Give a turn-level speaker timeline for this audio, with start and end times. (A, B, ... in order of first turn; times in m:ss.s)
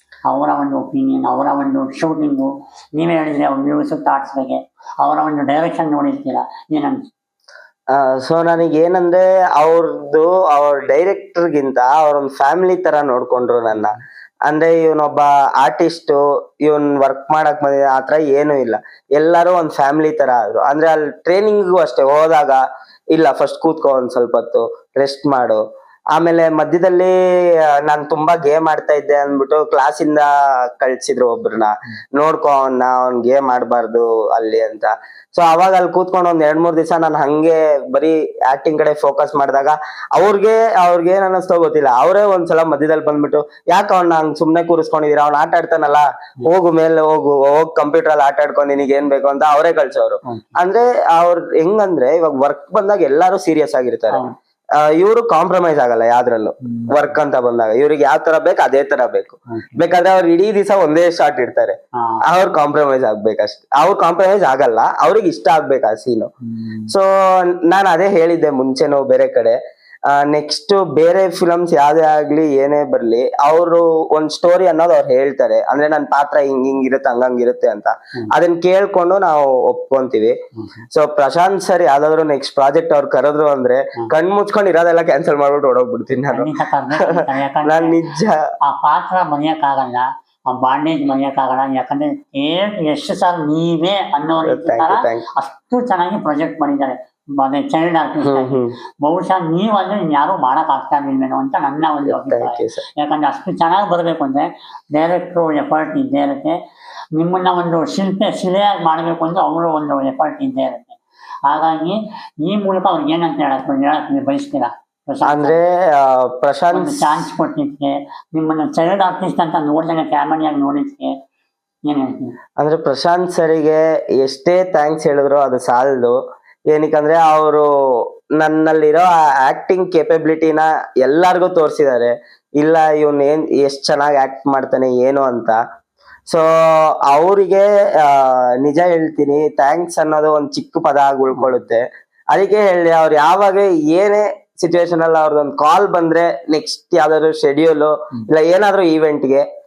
0:00.3-0:07.1 A
0:07.9-0:25.6 B
0:26.1-0:27.1 B
0:27.6-0:54.2 B
0:50.2-0:50.6 A
0:54.8-1:06.3 B
0:56.6-0:56.9 A
0:59.5-0:59.8 A
1:02.0-1:02.2 A
1:06.4-1:06.9 A
1:06.9-1:20.4 B
1:20.6-1:20.8 A
1:20.9-1:28.4 B
1:26.2-1:28.0 A
1:28.6-1:46.6 A
1:34.4-1:35.2 B
1:38.2-1:38.7 B
1:42.1-1:42.8 B
1:47.1-1:55.6 A
1:55.2-1:57.2 B
1:56.7-2:01.1 A
2:01.8-2:02.3 A
2:02.6-2:06.2 B
2:06.7-2:15.6 B
2:16.3-2:29.4 B
2:21.3-2:21.6 A